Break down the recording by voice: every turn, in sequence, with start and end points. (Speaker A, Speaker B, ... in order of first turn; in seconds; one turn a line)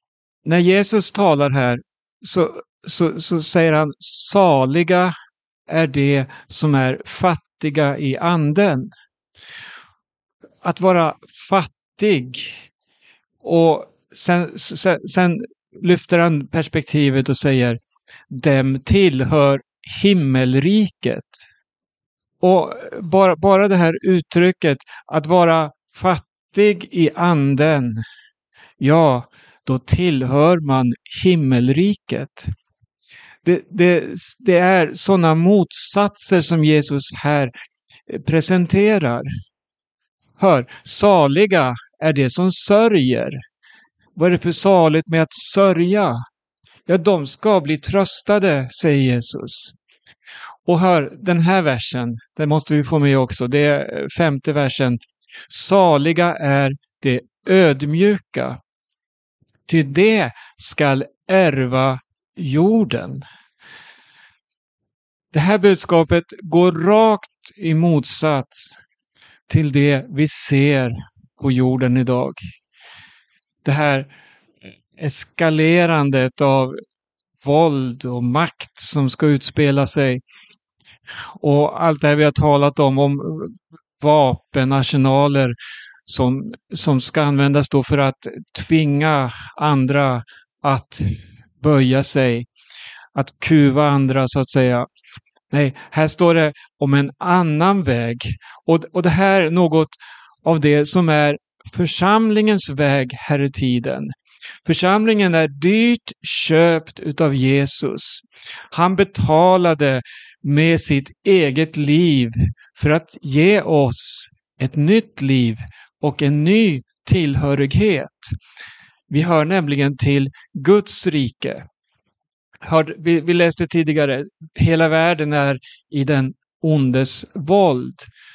Speaker A: 0.5-5.1
Speaker A: 5.7-8.9
Speaker A: 10.6-12.7
Speaker A: 13.4-17.8
Speaker A: 18.3-21.4
Speaker A: 22.4-28.0
Speaker A: 28.8-32.5
Speaker A: 33.4-37.5
Speaker A: 38.1-39.3
Speaker A: 40.4-43.4
Speaker A: 44.1-46.2
Speaker A: 46.9-49.8
Speaker A: 50.6-58.6
Speaker A: 59.7-63.2
Speaker A: 65.3-68.7
Speaker A: 69.5-72.4
Speaker A: 73.6-74.1
Speaker A: 75.0-76.8
Speaker A: 77.4-80.2
Speaker A: 81.4-92.5
Speaker A: 93.1-94.9
Speaker A: 95.5-104.1
Speaker A: 104.6-118.3
Speaker A: 119.1-121.6
Speaker A: 122.6-128.1